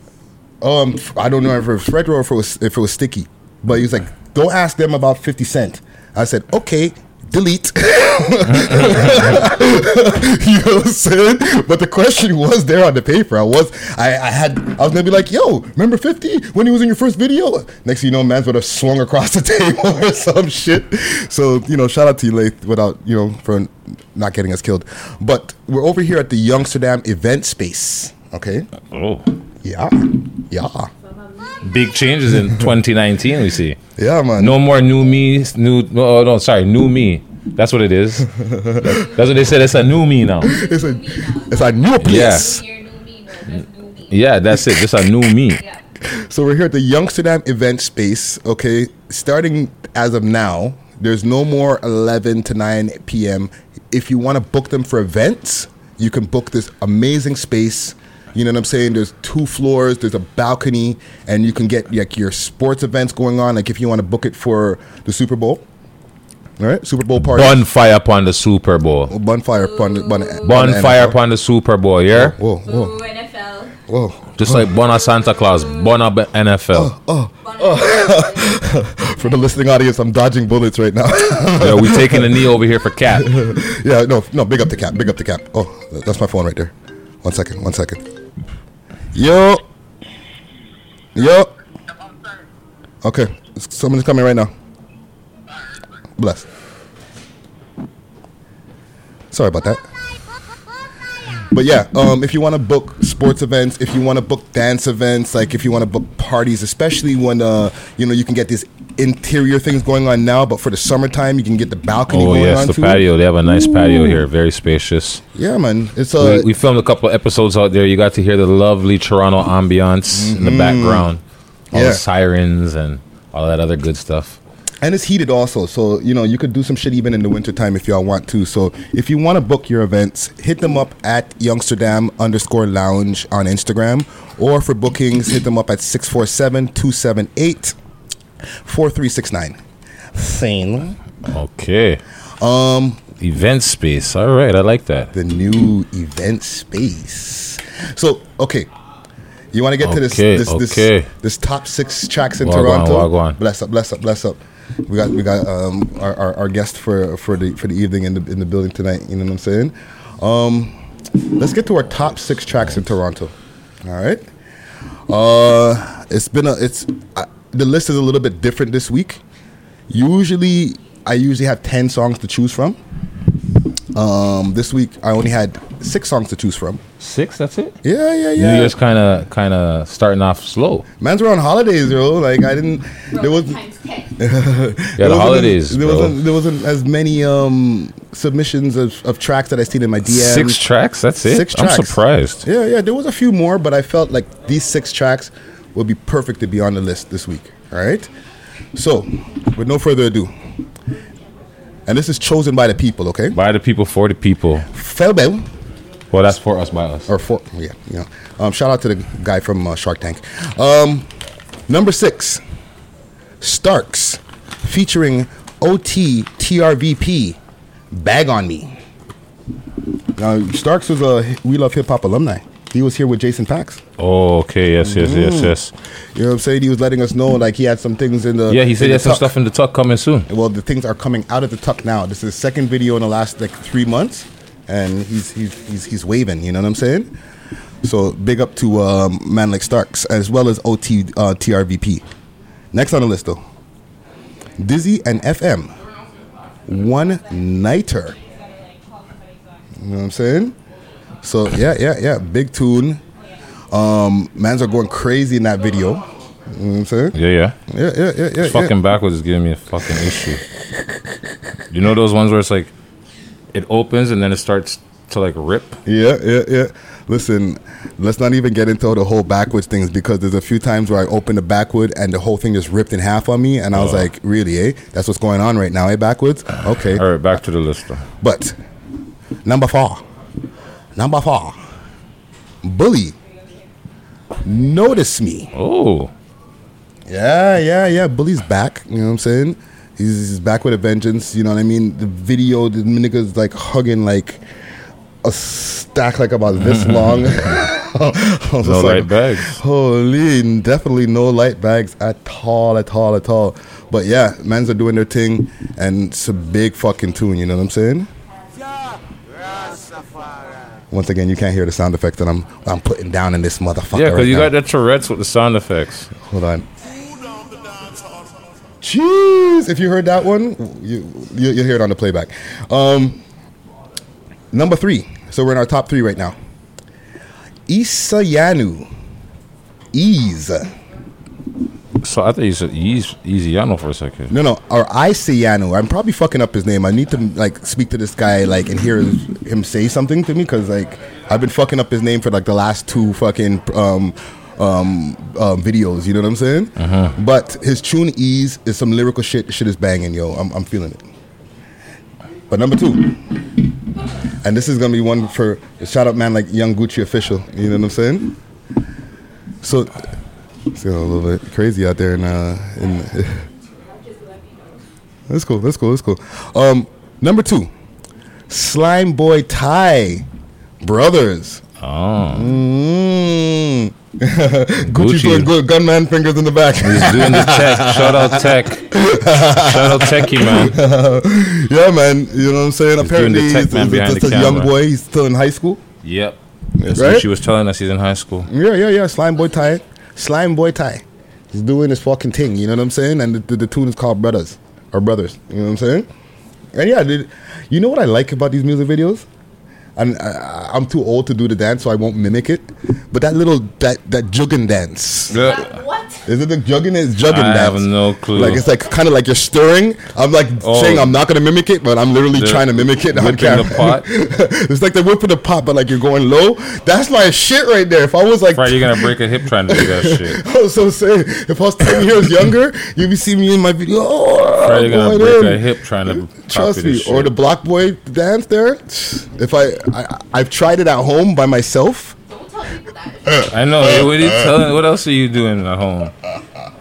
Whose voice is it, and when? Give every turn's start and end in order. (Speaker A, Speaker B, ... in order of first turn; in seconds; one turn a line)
Speaker A: 0.6-28.7
Speaker B: 28.9-29.3
Speaker A: 29.6-30.9
Speaker C: 31.0-31.8
Speaker B: 31.6-33.8
Speaker A: 34.0-34.6
Speaker B: 34.4-40.5
Speaker A: 38.3-39.1
Speaker A: 40.4-42.6
Speaker C: 40.4-44.2
Speaker B: 42.0-42.6
Speaker B: 44.1-45.6
Speaker A: 46.0-65.6
Speaker A: 66.6-67.6
Speaker B: 67.2-69.1
Speaker A: 69.1-71.2
Speaker C: 69.5-70.5
Speaker B: 70.4-72.4
Speaker A: 72.1-73.0
Speaker C: 72.6-73.8
Speaker A: 73.9-74.7
Speaker B: 74.4-76.9
Speaker A: 76.7-82.4
Speaker C: 77.4-79.5
Speaker B: 81.6-83.4
Speaker A: 83.2-88.0
Speaker A: 89.1-89.6
Speaker A: 91.2-91.5
Speaker A: 93.0-94.5
Speaker A: 96.2-96.5
Speaker A: 99.3-99.9
Speaker A: 101.5-114.3
Speaker B: 112.1-115.2
Speaker A: 115.3-116.5
Speaker B: 116.2-121.2
Speaker A: 120.1-121.1
Speaker A: 121.7-122.0
Speaker B: 121.7-124.4
Speaker A: 124.8-137.8
Speaker A: 138.6-139.6
Speaker A: 140.1-141.0
Speaker B: 141.2-142.0
Speaker A: 142.4-143.1
Speaker B: 143.2-145.1
Speaker A: 145.1-148.7
Speaker A: 149.5-160.8
Speaker B: 149.8-151.1
Speaker B: 152.4-153.4
Speaker A: 161.4-164.3
Speaker A: 165.1-169.2
Speaker A: 169.9-172.8
Speaker A: 173.9-176.8
Speaker B: 177.0-177.8
Speaker A: 177.8-178.8
Speaker B: 178.4-180.9
Speaker A: 181.0-183.6
Speaker C: 183.1-184.1
Speaker A: 184.2-190.7
Speaker B: 185.0-186.2
Speaker B: 190.1-192.4
Speaker A: 191.2-198.1
Speaker A: 198.8-200.3
Speaker A: 201.9-203.4
Speaker B: 203.3-204.7
Speaker A: 204.7-205.5
Speaker B: 206.1-207.1
Speaker A: 207.1-211.1
Speaker A: 211.7-212.4
Speaker A: 213.4-217.4
Speaker A: 217.9-218.8
Speaker A: 220.2-223.8
Speaker B: 224.0-225.7
Speaker A: 224.8-225.6
Speaker A: 226.2-229.3
Speaker B: 228.5-230.3
Speaker A: 230.3-237.1
Speaker A: 237.8-242.0
Speaker A: 242.7-243.4
Speaker A: 244.6-245.7
Speaker A: 246.7-248.2
Speaker C: 248.1-249.7
Speaker A: 249.8-250.6
Speaker A: 251.2-253.0
Speaker A: 253.7-258.7
Speaker B: 257.1-257.6
Speaker B: 258.4-260.4
Speaker B: 261.7-262.7
Speaker B: 263.5-265.8
Speaker A: 265.9-277.1
Speaker B: 273.7-274.1
Speaker B: 276.7-278.1
Speaker A: 278.2-278.6
Speaker A: 279.4-280.1
Speaker A: 280.9-281.6
Speaker A: 282.6-283.1
Speaker A: 284.4-285.5
Speaker B: 285.5-286.1
Speaker A: 287.1-294.4
Speaker A: 295.2-308.1
Speaker B: 296.6-297.6
Speaker B: 298.6-299.6
Speaker A: 310.9-314.5
Speaker B: 313.9-316.1
Speaker A: 316.2-316.7
Speaker A: 318.8-323.2
Speaker A: 324.5-326.4
Speaker A: 327.7-328.9
Speaker A: 329.9-330.7
Speaker B: 332.0-334.3
Speaker A: 334.3-351.1
Speaker B: 346.8-347.2
Speaker A: 352.5-353.2
Speaker A: 354.4-358.4
Speaker A: 359.6-359.9
Speaker A: 360.7-363.5
Speaker C: 363.7-364.8
Speaker A: 365.3-367.7
Speaker A: 368.5-370.3
Speaker A: 370.8-371.6
Speaker B: 371.8-372.6
Speaker A: 372.3-385.8
Speaker B: 374.9-375.5
Speaker B: 376.8-378.9
Speaker B: 379.5-380.8
Speaker B: 383.0-384.7
Speaker B: 386.0-388.5
Speaker A: 386.8-387.3
Speaker A: 388.5-396.1
Speaker A: 396.7-399.3
Speaker A: 400.0-405.4
Speaker B: 405.3-405.8
Speaker C: 405.3-406.2
Speaker A: 406.3-419.1
Speaker B: 407.3-408.6
Speaker B: 410.6-411.1
Speaker B: 412.3-414.1
Speaker B: 418.5-420.4
Speaker A: 419.7-432.2
Speaker B: 424.6-427.3
Speaker C: 432.3-433.5
Speaker A: 433.3-434.6
Speaker B: 433.5-436.1